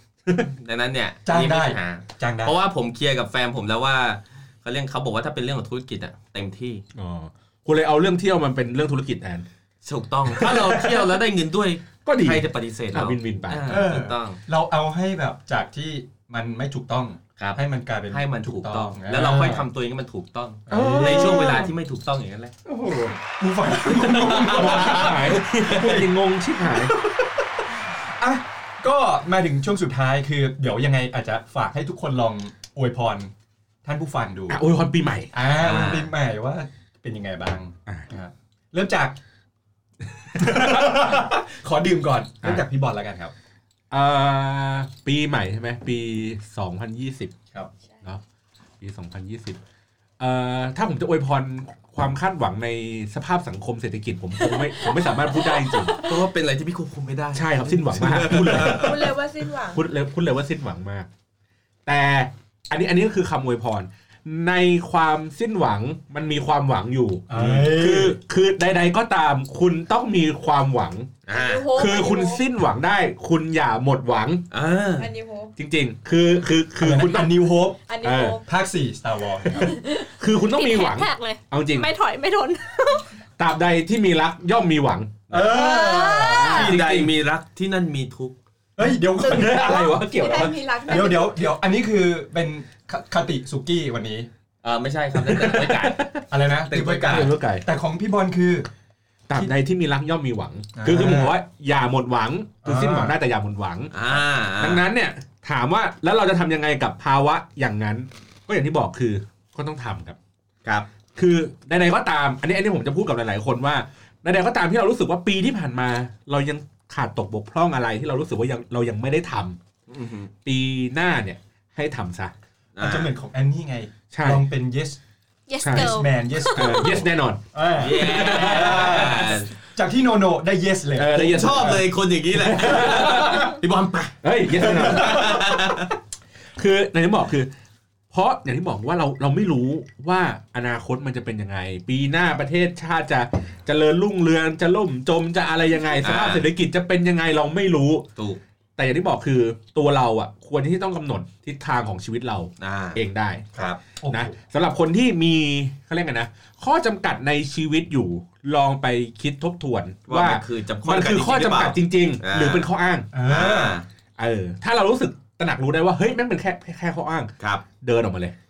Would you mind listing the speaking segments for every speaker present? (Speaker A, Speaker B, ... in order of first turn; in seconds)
Speaker A: 0.4-6.8, 9.8-14.4, 18.1-22.5, 24.0-25.3, 35.6-36.1, 55.9-59.0, 71.3-71.8, 74.5-75.1, 86.4-88.3, 94.6-96.0, 96.7-97.3, 103.9-104.8, 119.9-120.3, 122.8-123.1, 127.8-129.5, 131.2-135.9, 146.0-146.5, 152.6-153.0, 160.1-162.7, 163.3-163.9, 167.4-167.7
Speaker B: 1.3-2.5, 13.7-19.7, 20.7-21.7, 22.6-33.3, 33.8-34.6, 35.3-39.2, 40.3-43.3, 58.3-58.6, 67.3-68.2, 76.8-77.8, 78.5-79.7, 85.3-86.8, 88.8-90.0, 90.9-94.3, 96.3-98.7, 100.8-101.4, 102.6-103.2, 122.8-125.0, 125.6-131.8, 134.6-135.5, 153.6-154.3, 163.1-163.8
Speaker C: 7.0-9.4, 10.3-11.1, 12.1-13.8, 20.7-21.7, 24.1-27.0, 34.5-35.3, 43.9-47.4, 48.8-49.6, 50.2-56.0, 57.3-59.1, 59.7-61.1, 61.9-71.1, 71.7-74.4, 75.6-77.4, 78.0-78.4, 80.2-81.9, 83.4-85.6, 86.2-87.1, 89.2-91.0, 95.2-96.2, 97.1-97.6, 99.3-110.2, 111.2-119.6, 120.5-122.3, 124.1-124.4, 125.6-129.3, 131.0-133.6, 134.2-135.4, 136.6-137.5, 138.1-148.1, 148.8-153.5, 154.1-163.1, 164.2-168.3
Speaker D: 55.2-56.1, 58.6-59.8, 71.3-72.4, 75.0-75.5, 77.9-78.4, 79.5-80.1, 89.2-91.5
Speaker E: 80.5-83.1, 85.5-86.7, 125.5-126.9